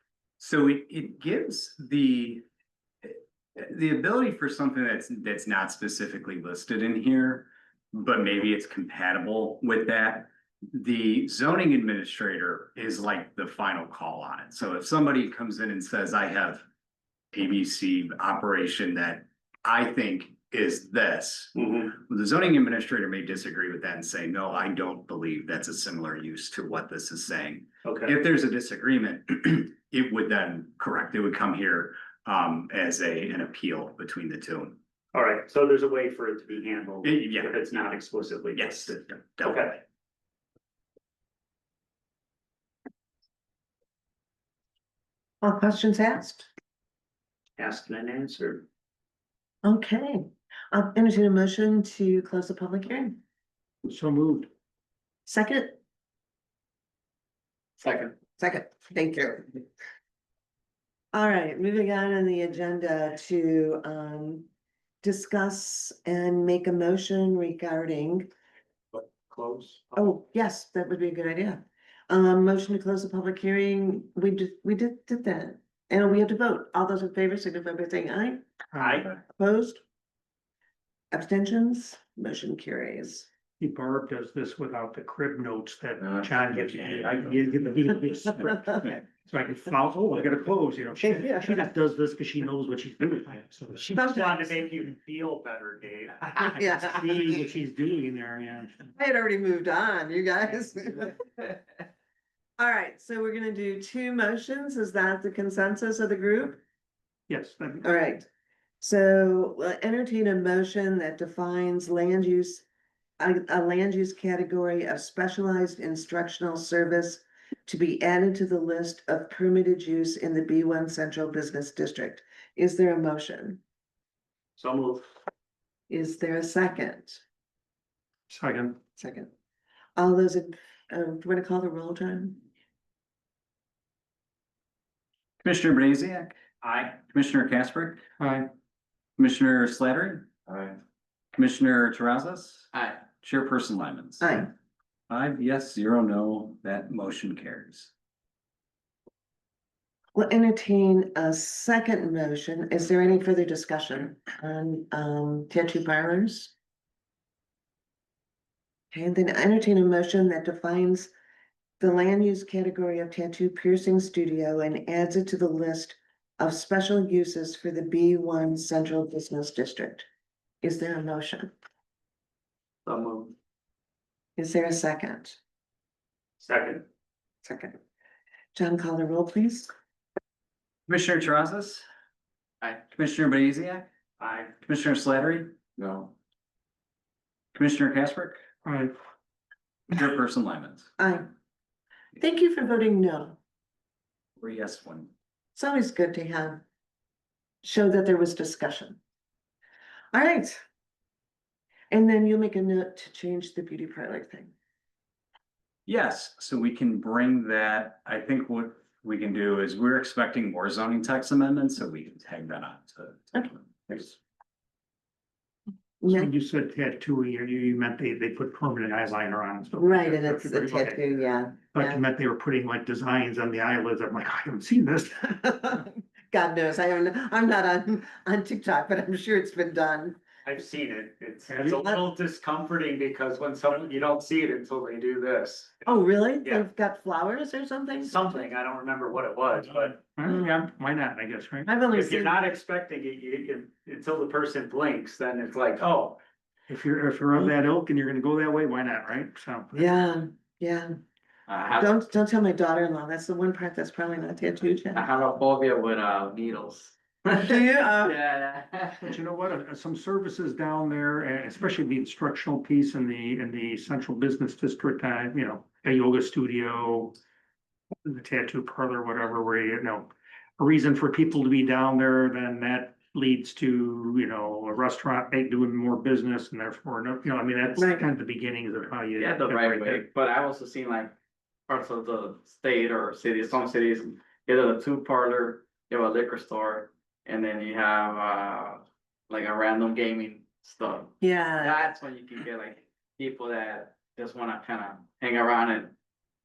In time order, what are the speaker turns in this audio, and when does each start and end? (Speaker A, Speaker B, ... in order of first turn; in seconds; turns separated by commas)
Speaker A: 0.4-2.4, Speaker A: 3.0-16.6, Speaker A: 17.3-34.8, Speaker B: 21.6-21.9, Speaker B: 27.8-28.1, Speaker B: 35.1-39.8, Speaker A: 37.0-37.6, Speaker A: 38.5-39.7, Speaker C: 45.4-46.5, Speaker B: 47.6-48.6, Speaker C: 49.6-53.2, Speaker D: 53.9-54.5, Speaker C: 55.2-55.8, Speaker E: 57.8-58.1, Speaker C: 58.4-59.6, Speaker C: 61.1-64.5, Speaker C: 65.0-68.3, Speaker B: 68.9-70.1, Speaker C: 70.0-78.4, Speaker D: 78.7-79.0, Speaker B: 78.8-79.1, Speaker C: 79.3-79.8, Speaker C: 81.1-83.3, Speaker D: 83.6-94.5, Speaker C: 93.9-94.2, Speaker B: 94.1-96.4, Speaker D: 96.4-98.9, Speaker C: 96.5-97.3, Speaker C: 98.9-101.4, Speaker C: 102.6-106.6, Speaker D: 107.3-107.9, Speaker C: 107.8-108.2, Speaker C: 108.8-112.6, Speaker C: 113.2-123.6, Speaker B: 124.6-125.0, Speaker C: 125.9-127.2, Speaker D: 128.3-128.8, Speaker C: 129.0-129.3, Speaker C: 129.9-132.4, Speaker A: 135.4-138.0, Speaker B: 136.6-136.9, Speaker D: 138.2-138.5, Speaker A: 139.2-140.3, Speaker A: 141.3-144.3, Speaker E: 142.7-143.0, Speaker C: 144.2-144.5, Speaker A: 145.1-147.9, Speaker C: 150.1-156.5, Speaker C: 158.9-161.1, Speaker C: 161.8-170.1, Speaker C: 170.6-171.5, Speaker B: 172.9-173.3, Speaker C: 174.4-175.4, Speaker B: 176.4-176.8, Speaker C: 177.4-177.8, Speaker C: 178.5-179.7, Speaker A: 180.9-181.8, Speaker A: 182.9-183.9, Speaker B: 184.2-184.5, Speaker A: 184.6-185.6, Speaker E: 185.8-186.1, Speaker A: 187.5-188.4, Speaker D: 188.6-188.9, Speaker A: 189.9-190.9, Speaker C: 191.0-191.2, Speaker C: 192.2-193.4, Speaker A: 194.4-195.1, Speaker C: 195.6-196.6, Speaker C: 197.6-199.0, Speaker C: 200.1-200.6, Speaker C: 201.9-204.5, Speaker A: 205.9-213.9, Speaker C: 213.3-214.1, Speaker C: 216.0-216.3, Speaker D: 216.0-221.0, Speaker C: 219.8-222.0, Speaker D: 221.7-225.6, Speaker C: 225.4-230.2, Speaker B: 230.4-236.7, Speaker D: 231.5-231.8, Speaker C: 235.8-238.3, Speaker B: 238.0-240.2, Speaker D: 240.2-241.7, Speaker C: 241.7-242.4, Speaker B: 241.9-246.2, Speaker D: 246.7-249.9, Speaker C: 249.7-250.9, Speaker E: 251.5-251.9, Speaker C: 251.7-255.1, Speaker E: 254.9-259.2, Speaker C: 257.3-258.2, Speaker D: 259.1-267.1, Speaker D: 268.0-280.0, Speaker C: 277.8-278.0, Speaker E: 279.1-281.1, Speaker E: 281.7-295.9, Speaker C: 291.2-291.9